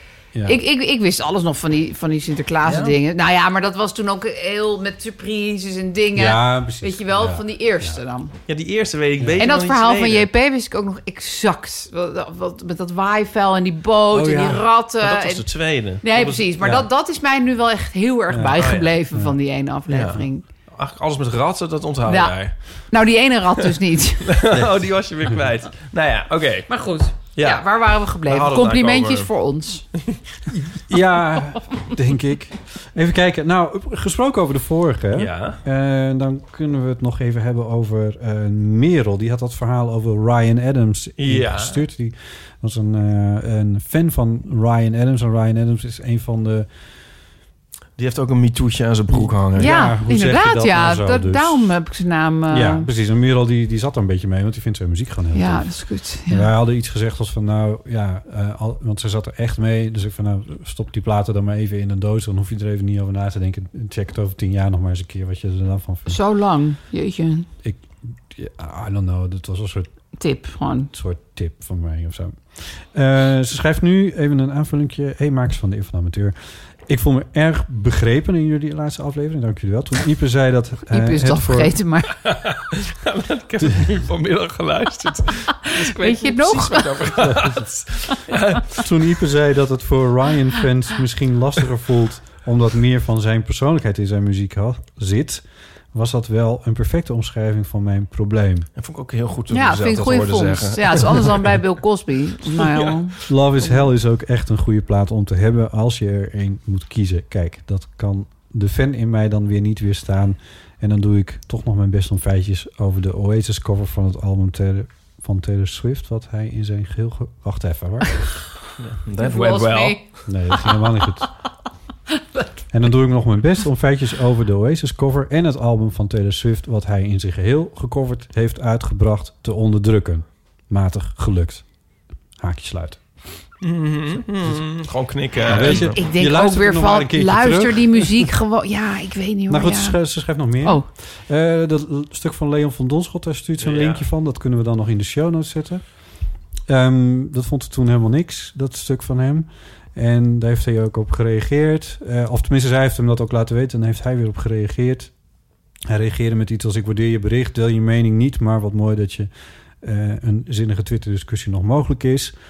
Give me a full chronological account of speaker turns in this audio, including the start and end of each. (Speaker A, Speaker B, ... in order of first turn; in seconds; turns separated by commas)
Speaker A: 0.4-8.3, Speaker B: 2.6-3.0, Speaker C: 6.1-8.0, Speaker B: 8.5-10.3, Speaker A: 9.4-20.4, Speaker C: 14.1-14.6, Speaker B: 15.0-16.5, Speaker C: 16.6-16.9, Speaker C: 18.3-18.6, Speaker B: 18.6-18.9, Speaker B: 19.9-22.9, Speaker A: 22.1-24.4, Speaker B: 24.2-29.3, Speaker A: 26.7-29.8, Speaker C: 30.5-46.7, Speaker B: 35.1-35.6, Speaker B: 41.2-41.8, Speaker B: 48.0-49.7, Speaker C: 49.1-51.7, Speaker A: 49.6-52.9, Speaker C: 52.5-55.7, Speaker A: 55.3-56.5, Speaker C: 56.2-66.2, Speaker A: 66.1-67.5, Speaker C: 67.6-69.9, Speaker A: 70.2-70.9, Speaker C: 70.9-81.8, Speaker A: 80.9-82.1, Speaker B: 82.2-88.9, Speaker A: 85.8-87.3, Speaker C: 87.2-87.7, Speaker C: 88.7-98.7, Speaker B: 98.8-101.7, Speaker A: 99.5-103.8, Speaker B: 102.5-103.0, Speaker C: 103.3-118.4, Speaker B: 118.8-120.3, Speaker A: 119.2-121.2, Speaker C: 120.3-121.3, Speaker A: 122.1-122.6, Speaker C: 122.7-131.6, Speaker C: 132.4-133.0, Speaker B: 133.6-136.0, Speaker C: 135.4-138.3, Speaker A: 135.5-140.0, Speaker C: 139.5-146.0, Speaker A: 140.6-140.8, Speaker B: 143.6-144.0, Speaker C: 146.7-155.1, Speaker C: 155.9-159.3, Speaker C: 159.8-162.3